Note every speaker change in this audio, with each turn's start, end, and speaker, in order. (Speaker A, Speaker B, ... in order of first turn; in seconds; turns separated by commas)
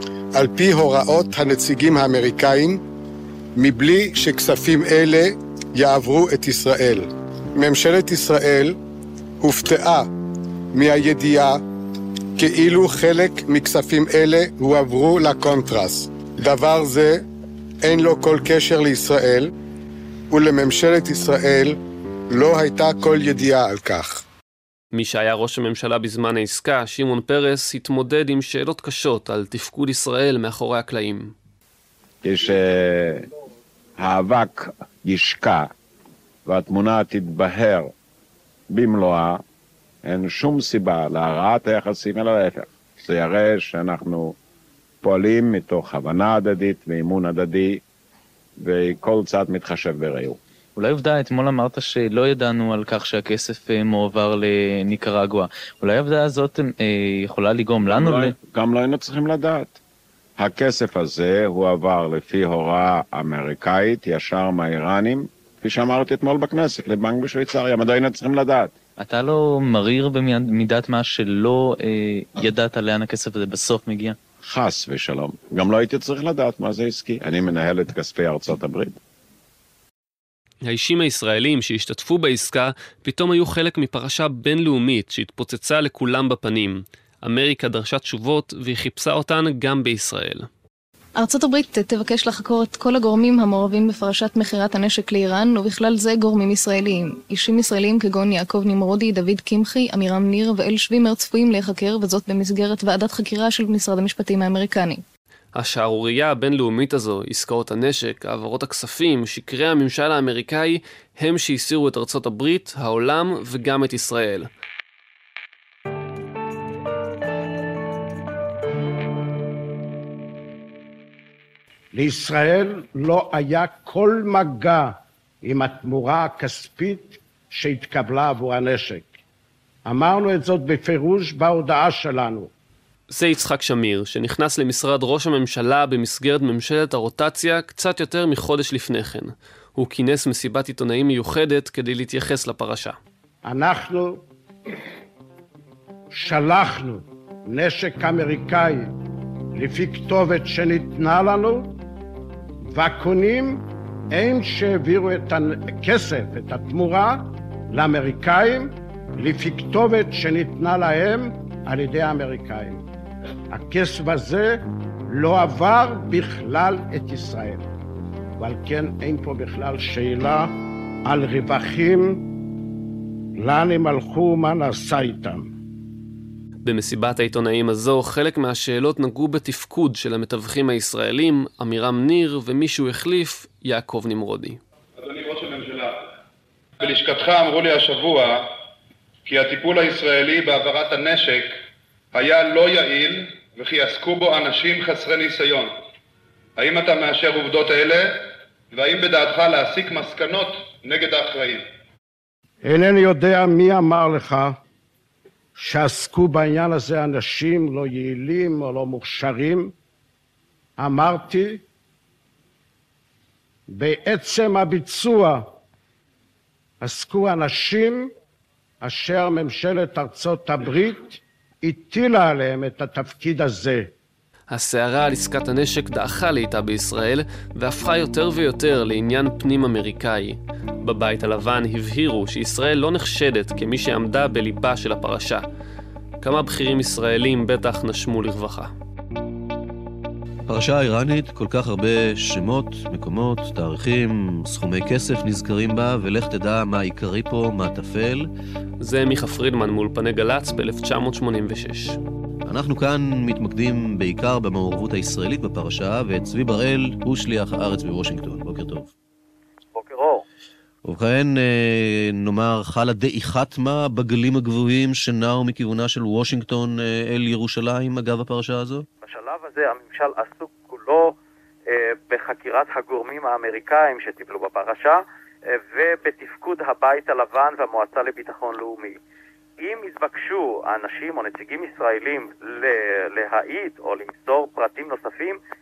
Speaker A: 0.3-2.8, Speaker A: 3.6-8.8, Speaker A: 9.4-10.1, Speaker A: 10.7-11.6, Speaker A: 12.4-17.2, Speaker A: 17.8-19.5, Speaker A: 20.3-21.8, Speaker A: 22.3-24.2, Speaker B: 24.9-31.3, Speaker C: 32.2-33.3, Speaker C: 34.0-35.7, Speaker C: 36.5-37.9, Speaker C: 38.7-39.4, Speaker C: 40.0-44.4, Speaker C: 45.0-47.8, Speaker C: 48.6-50.4, Speaker D: 50.8-58.4, Speaker C: 57.8-59.8, Speaker C: 60.4-68.7, Speaker D: 69.0-74.2, Speaker C: 74.5-79.0, Speaker B: 80.6-90.5, Speaker E: 91.2-105.0, Speaker B: 105.5-114.5, Speaker F: 121.9-129.1, Speaker F: 129.8-132.5, Speaker B: 133.1-143.0, Speaker F: 143.4-144.2, Speaker F: 146.1-148.9, Speaker F: 149.6-151.7, Speaker F: 152.7-162.8, Speaker F: 163.5-167.7, Speaker F: 168.4-170.5, Speaker F: 171.1-172.2, Speaker F: 173.4-175.5, Speaker B: 176.6-184.6, Speaker G: 185.0-186.0, Speaker G: 186.8-188.5, Speaker G: 189.3-191.5, Speaker G: 192.1-195.7, Speaker G: 196.6-201.7, Speaker F: 202.6-204.6, Speaker F: 205.6-209.8, Speaker F: 210.8-211.6, Speaker F: 213.7-215.5, Speaker F: 216.8-218.1, Speaker F: 218.8-223.9, Speaker B: 224.5-235.4, Speaker B: 236.2-238.7, Speaker H: 240.5-248.3, Speaker B: 248.8-252.0, Speaker H: 252.5-258.9, Speaker I: 259.7-260.2, Speaker H: 260.9-268.9, Speaker I: 269.0-271.2, Speaker I: 271.7-279.0, Speaker I: 279.6-285.4